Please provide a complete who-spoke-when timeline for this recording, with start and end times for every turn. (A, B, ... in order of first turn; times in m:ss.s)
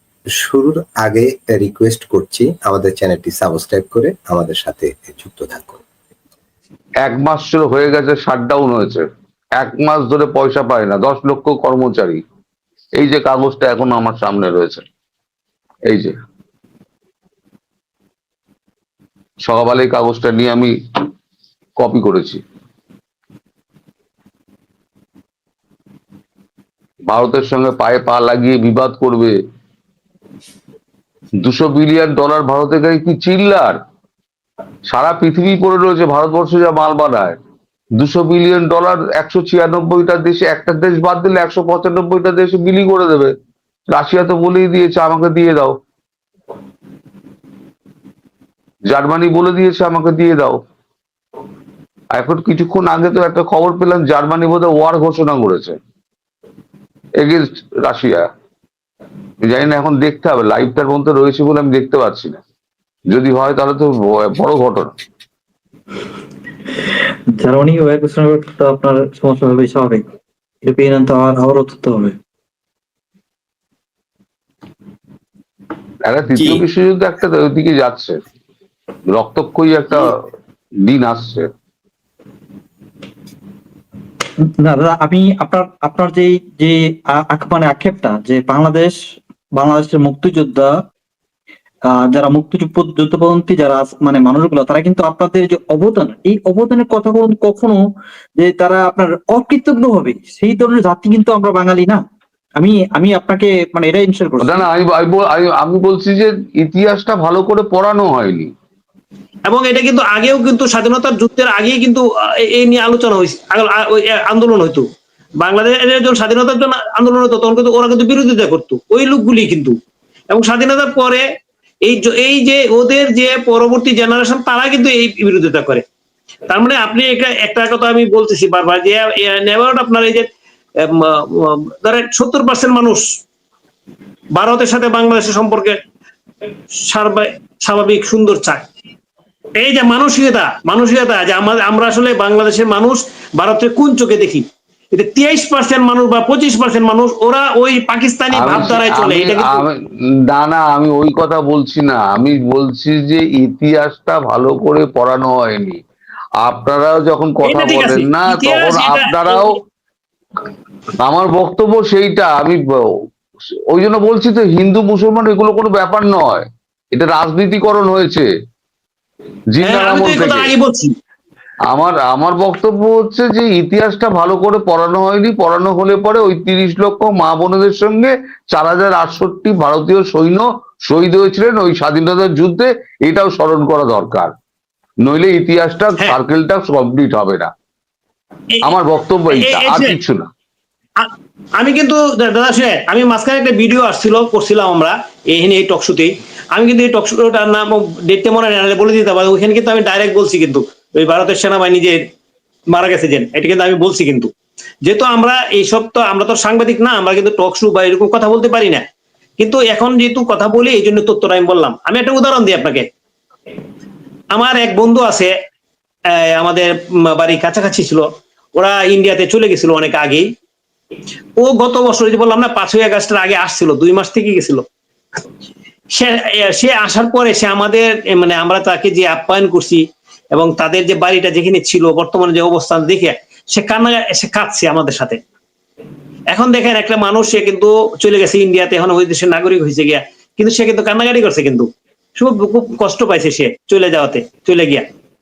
0:00.4-0:05.8 A
0:07.0-0:09.1 B
0:09.6-0:12.2 B
0:13.0-0:14.8 B
0:19.4-0:20.7 B
0:21.8-0:22.4 B
0:27.1-0:29.3 B
0:31.4-0:33.8 B
0:34.9-0:37.4 B
0:38.0-0:43.3 B
0:43.9-0:45.7 B
0:48.9-0:50.6 B
0:52.1-0:55.8 B
0:57.2-0:58.3 B
0:59.4-1:02.4 B
1:03.1-1:04.9 B
1:07.4-1:10.0 C
1:10.6-1:12.2 C
1:16.1-1:18.2 B
1:16.4-1:16.6 A
1:19.1-1:20.2 B
1:20.8-1:21.5 B
1:24.6-1:29.0 C
1:29.6-1:30.8 C
1:31.9-1:37.9 C
1:38.4-1:42.0 C
1:42.6-1:44.7 C
1:44.4-1:48.5 B
1:49.5-1:54.9 D
1:55.4-1:59.8 D
2:00.3-2:01.2 D
2:01.8-2:05.8 D
2:06.5-2:10.3 D
2:10.8-2:13.1 D
2:14.4-2:15.8 D
2:16.8-2:18.7 D
2:19.6-2:29.6 D
2:28.3-2:29.8 B
2:30.3-2:35.8 B
2:36.4-2:39.5 B
2:37.4-2:39.4 D
2:41.0-2:42.6 B
2:43.7-2:48.3 B
2:49.5-2:50.5 B
2:49.6-2:50.9 D
2:51.7-3:04.3 B
3:05.0-3:07.5 B
3:08.6-3:10.2 B
3:09.3-3:10.0 D
3:11.0-3:22.0 D
3:22.7-3:24.3 D
3:24.8-3:28.8 D
3:29.4-3:32.9 D
3:34.3-3:35.3 D
3:36.2-3:40.3 D
3:41.4-3:44.6 D
3:45.9-3:55.2 D
3:56.3-4:04.9 D